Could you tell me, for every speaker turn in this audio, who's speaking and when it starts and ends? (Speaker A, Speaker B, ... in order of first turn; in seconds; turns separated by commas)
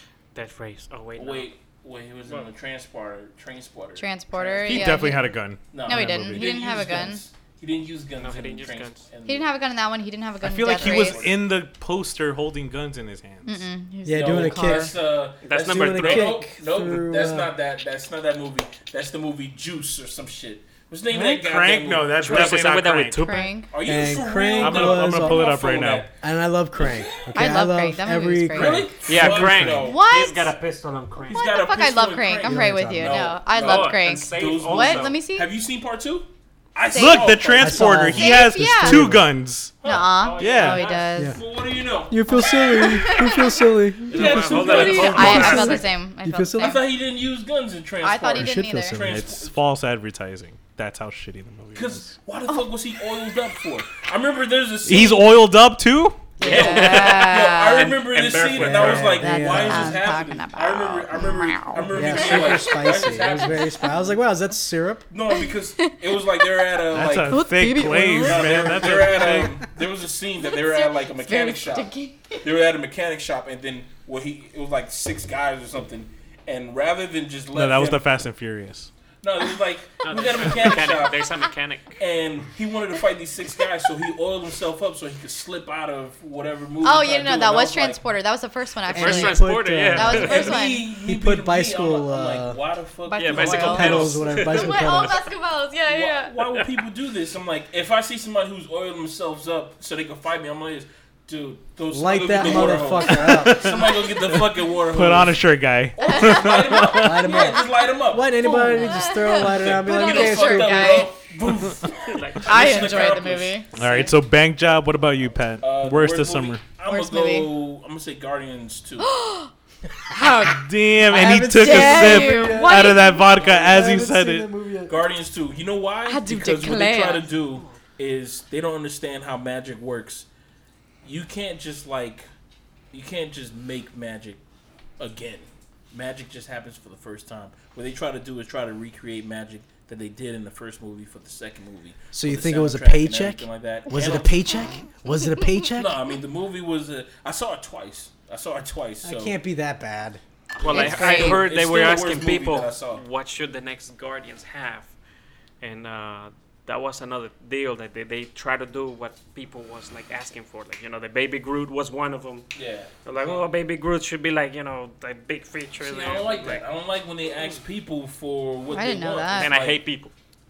Speaker A: 0.3-1.5, Speaker B: 1.1-5.1, Speaker A: 2.2-2.5, Speaker C: 4.0-5.3, Speaker D: 4.6-6.5, Speaker B: 5.7-9.5, Speaker C: 5.8-7.2, Speaker A: 8.2-9.0, Speaker C: 9.2-11.3, Speaker D: 10.4-13.7, Speaker B: 10.7-11.5, Speaker C: 13.4-14.9, Speaker E: 14.0-15.0, Speaker B: 14.1-22.7, Speaker A: 15.4-16.4, Speaker E: 15.6-17.5, Speaker D: 21.1-23.4, Speaker A: 22.2-23.6, Speaker C: 23.2-23.7, Speaker B: 23.7-26.1, Speaker E: 23.8-25.5, Speaker D: 24.6-26.1, Speaker E: 26.1-29.9, Speaker B: 26.8-27.3, Speaker C: 27.3-28.9, Speaker B: 28.5-30.0, Speaker A: 29.1-31.4, Speaker C: 29.8-30.5, Speaker B: 31.2-37.9, Speaker C: 31.3-35.5, Speaker E: 32.4-33.3, Speaker A: 33.5-35.2, Speaker C: 36.9-37.5, Speaker D: 36.9-39.8, Speaker E: 37.6-39.3, Speaker C: 38.1-39.1, Speaker B: 39.8-42.9, Speaker C: 39.8-41.4, Speaker A: 40.2-41.0, Speaker D: 40.4-40.9, Speaker E: 41.2-41.4, Speaker E: 42.1-46.8, Speaker C: 42.3-43.6, Speaker B: 44.1-45.8, Speaker A: 44.1-45.9, Speaker C: 44.5-46.9, Speaker D: 45.3-45.6, Speaker B: 46.5-49.6, Speaker C: 48.0-49.0, Speaker E: 48.3-49.3, Speaker D: 48.9-52.1, Speaker B: 51.7-55.5, Speaker D: 54.8-56.4, Speaker C: 56.4-58.0, Speaker A: 56.4-59.2, Speaker B: 56.4-64.2, Speaker E: 58.6-60.0, Speaker C: 59.2-62.9, Speaker E: 61.8-65.0, Speaker B: 65.1-67.4, Speaker C: 65.3-68.7, Speaker D: 66.9-69.6, Speaker B: 68.1-78.1, Speaker C: 70.4-72.4, Speaker D: 77.5-78.9, Speaker B: 79.2-81.3, Speaker A: 80.0-82.0, Speaker B: 82.0-88.0, Speaker C: 86.8-90.8, Speaker A: 88.9-90.6, Speaker E: 88.9-92.6, Speaker B: 90.1-94.5, Speaker C: 93.1-96.4, Speaker A: 93.2-95.1, Speaker E: 93.6-95.2, Speaker B: 95.9-113.6, Speaker E: 101.9-104.1, Speaker D: 103.3-104.0, Speaker D: 104.8-107.3, Speaker C: 106.0-106.8, Speaker E: 106.9-111.1, Speaker C: 108.4-111.1, Speaker A: 112.0-114.1, Speaker C: 112.4-113.7, Speaker D: 113.7-116.6, Speaker B: 115.6-119.1, Speaker C: 116.8-117.5, Speaker C: 119.0-119.5, Speaker C: 120.1-123.3, Speaker D: 120.4-124.5, Speaker E: 121.1-125.1, Speaker B: 124.9-130.3, Speaker C: 126.0-127.3, Speaker B: 131.0-132.3, Speaker B: 132.9-134.4, Speaker B: 135.0-144.4, Speaker E: 142.1-146.0, Speaker B: 145.7-149.4, Speaker E: 149.0-150.2, Speaker A: 150.6-154.9, Speaker B: 150.6-153.0, Speaker C: 150.7-151.3, Speaker A: 155.6-166.7, Speaker B: 162.5-163.4, Speaker B: 165.8-169.8, Speaker C: 168.7-169.6, Speaker A: 169.3-170.1